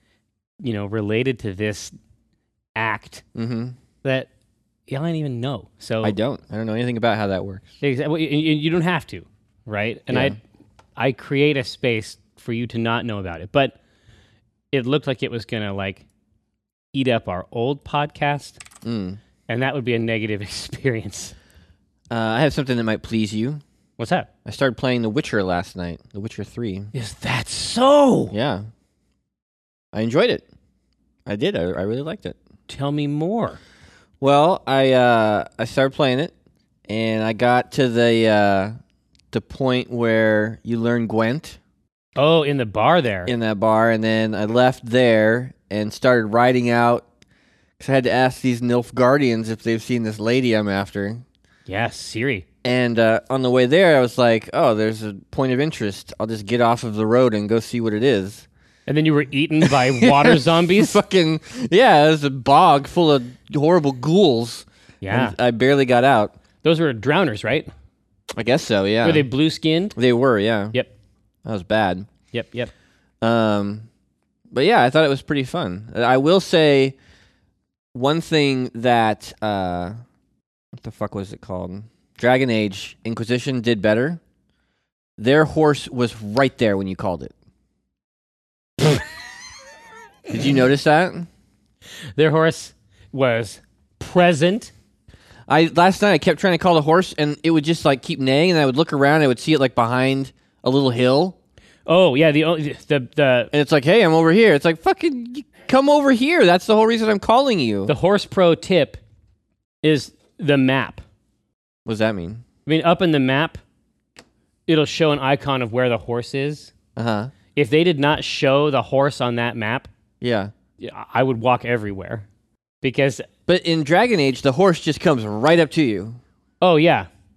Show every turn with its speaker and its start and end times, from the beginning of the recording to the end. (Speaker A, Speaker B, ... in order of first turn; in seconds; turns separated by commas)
Speaker A: 0.6-1.9, Speaker A: 2.8-3.2, Speaker B: 3.4-3.8, Speaker A: 4.0-4.3, Speaker A: 4.9-6.2, Speaker B: 6.0-7.7, Speaker A: 7.8-10.4, Speaker B: 10.1-10.4, Speaker A: 11.0-13.8, Speaker A: 14.7-16.0, Speaker A: 16.9-18.6, Speaker B: 18.8-19.2, Speaker A: 19.5-21.3, Speaker B: 22.1-23.6, Speaker A: 24.0-24.3, Speaker B: 24.4-26.9, Speaker A: 26.9-28.4, Speaker B: 28.3-28.6, Speaker B: 29.9-30.4, Speaker B: 31.3-32.4, Speaker A: 32.7-33.6, Speaker B: 34.2-36.3, Speaker B: 36.9-38.7, Speaker B: 39.3-41.6, Speaker A: 42.2-43.3, Speaker B: 43.3-47.0, Speaker B: 47.8-51.2, Speaker A: 51.7-52.5, Speaker B: 52.6-58.5, Speaker A: 58.9-61.0, Speaker B: 59.6-66.3, Speaker A: 65.0-65.4, Speaker A: 66.6-67.7, Speaker B: 68.3-69.3, Speaker A: 69.0-70.0, Speaker B: 70.0-70.8, Speaker B: 71.5-72.1, Speaker A: 72.3-72.7, Speaker B: 73.2-73.9, Speaker B: 74.5-77.0, Speaker B: 77.9-80.0, Speaker B: 80.7-84.2, Speaker B: 85.2-87.3, Speaker B: 90.3-91.3, Speaker A: 92.2-94.7, Speaker B: 95.5-101.4, Speaker A: 101.9-103.5, Speaker B: 103.5-107.9, Speaker A: 107.9-109.0, Speaker A: 109.8-111.0, Speaker B: 111.9-112.4, Speaker A: 112.7-113.6, Speaker A: 114.7-116.7, Speaker B: 117.0-117.3, Speaker A: 117.5-119.9, Speaker B: 120.2-120.5, Speaker A: 120.8-122.2, Speaker A: 122.8-123.2, Speaker B: 123.5-126.2, Speaker A: 126.6-127.1